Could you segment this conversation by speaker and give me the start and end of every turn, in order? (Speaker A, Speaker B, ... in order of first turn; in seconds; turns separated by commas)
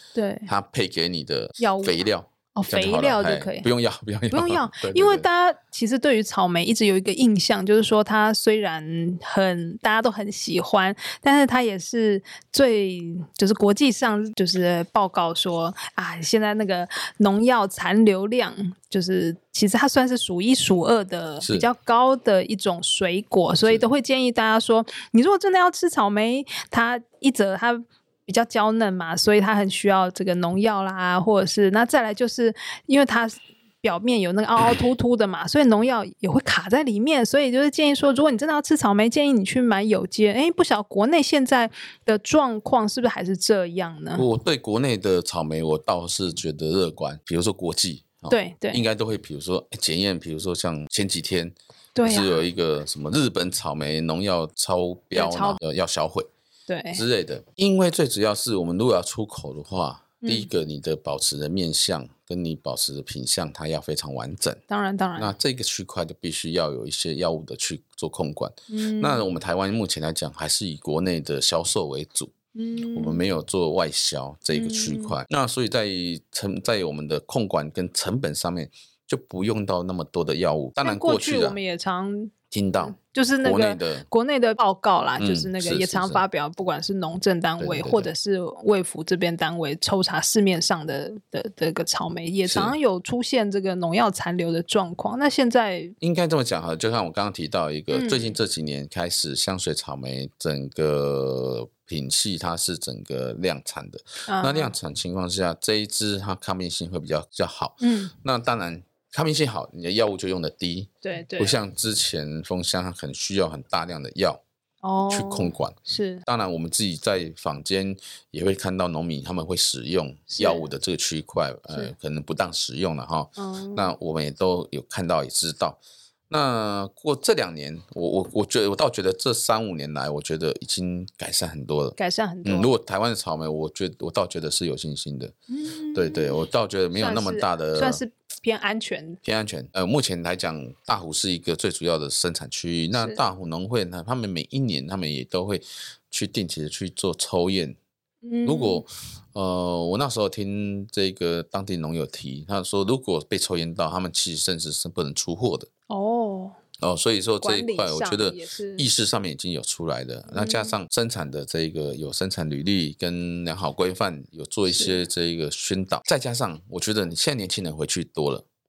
Speaker A: 0.1-0.5, Speaker B: 0.5-5.3, Speaker A: 1.6-2.0, Speaker A: 2.6-3.7, Speaker A: 4.3-44.3, Speaker B: 21.4-21.7, Speaker B: 44.1-56.3, Speaker A: 48.3-48.9, Speaker A: 52.0-52.4, Speaker A: 55.1-55.6, Speaker A: 56.7-57.0, Speaker B: 56.9-64.6, Speaker A: 60.2-60.5, Speaker A: 64.7-65.3, Speaker B: 65.2-72.3, Speaker A: 68.7-69.3, Speaker A: 72.5-73.2, Speaker B: 72.9-81.6, Speaker A: 74.5-75.2, Speaker A: 80.8-96.0, Speaker B: 82.5-84.1, Speaker B: 85.2-86.2, Speaker B: 87.6-88.1, Speaker B: 92.5-92.8, Speaker B: 96.0-114.4, Speaker A: 97.9-98.3, Speaker A: 104.3-104.7, Speaker A: 107.8-108.1, Speaker A: 111.0-111.6, Speaker A: 114.8-116.2, Speaker B: 115.1-125.8, Speaker A: 120.3-120.7, Speaker A: 123.4-123.9, Speaker B: 126.3-135.3, Speaker A: 132.0-132.7, Speaker A: 135.5-136.4, Speaker B: 135.9-138.0, Speaker A: 136.9-139.2, Speaker B: 139.2-147.8, Speaker A: 142.9-143.2, Speaker A: 148.2-148.8, Speaker B: 148.4-155.7, Speaker A: 155.9-156.6, Speaker B: 156.8-168.4, Speaker A: 157.4-158.9, Speaker A: 160.3-160.8, Speaker A: 164.7-165.0